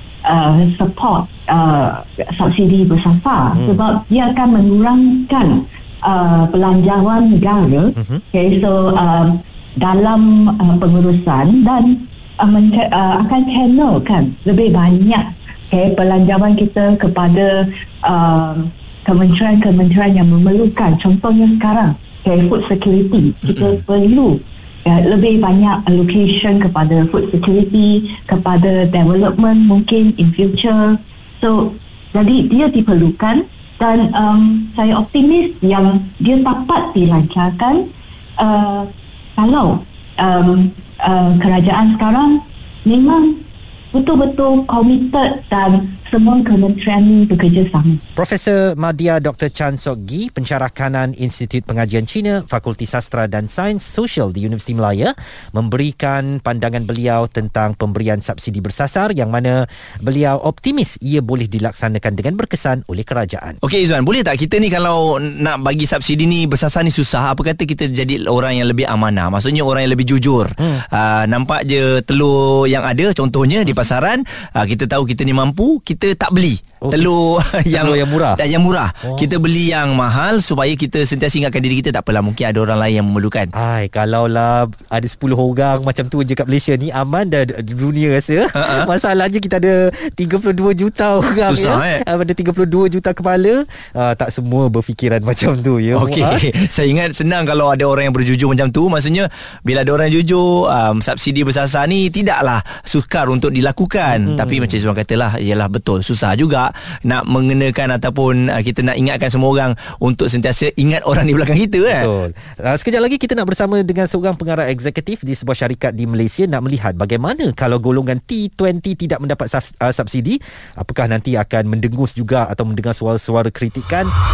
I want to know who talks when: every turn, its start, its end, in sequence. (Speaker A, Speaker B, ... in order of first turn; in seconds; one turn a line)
Speaker A: 0.2-48.0
Speaker B: 3.5-3.8
Speaker B: 8.0-8.2
Speaker C: 23.4-23.8
Speaker B: 48.2-63.6
Speaker C: 63.6-83.5
Speaker B: 76.8-77.1
Speaker B: 77.7-78.4
Speaker B: 79.0-79.3
Speaker B: 83.5-96.5
Speaker C: 88.6-88.9
Speaker C: 91.5-92.0
Speaker C: 95.9-112.1
Speaker B: 104.1-104.8
Speaker B: 111.9-124.1